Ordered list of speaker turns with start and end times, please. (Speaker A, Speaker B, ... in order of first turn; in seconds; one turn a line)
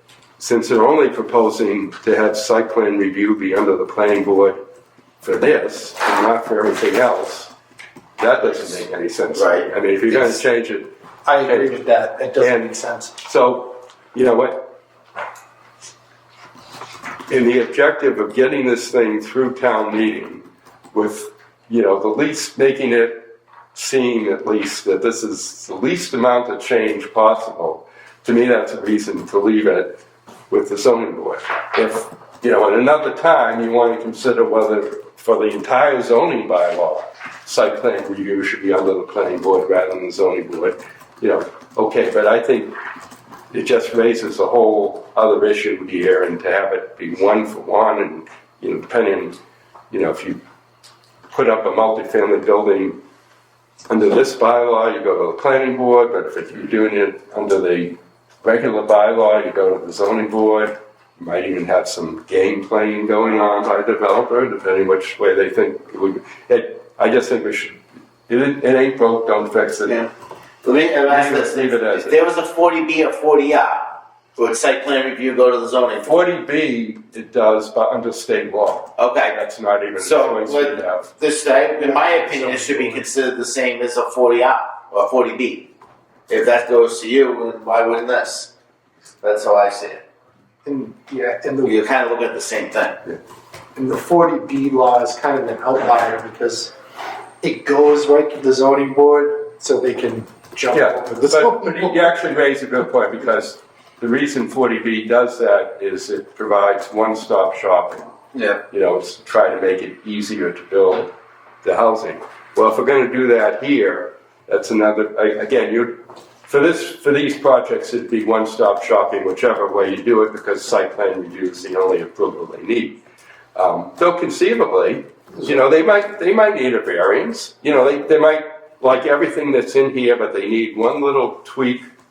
Speaker A: 0.4-4.6
Speaker A: 5.2-7.5
Speaker A: 8.2-11.8
Speaker B: 9.3-9.7
Speaker C: 10.1-10.4
Speaker C: 11.2-13.1
Speaker A: 12.4-14.7
Speaker A: 17.3-29.9
Speaker A: 30.5-42.7
Speaker A: 43.5-49.4
Speaker A: 49.9-50.4
Speaker A: 51.3-53.0
Speaker A: 53.9-70.1
Speaker B: 69.8-70.1
Speaker B: 70.6-73.8
Speaker A: 71.0-72.2
Speaker B: 74.3-76.2
Speaker A: 76.0-81.1
Speaker B: 79.0-79.4
Speaker B: 80.0-85.7
Speaker C: 81.8-83.0
Speaker B: 86.3-88.5
Speaker B: 89.2-90.0
Speaker C: 90.6-91.8
Speaker B: 91.6-93.0
Speaker C: 93.7-96.7
Speaker C: 97.4-102.1
Speaker A: 100.7-108.1
Speaker B: 108.3-108.6
Speaker A: 108.7-111.1
Speaker A: 111.6-123.0
Speaker A: 123.5-131.8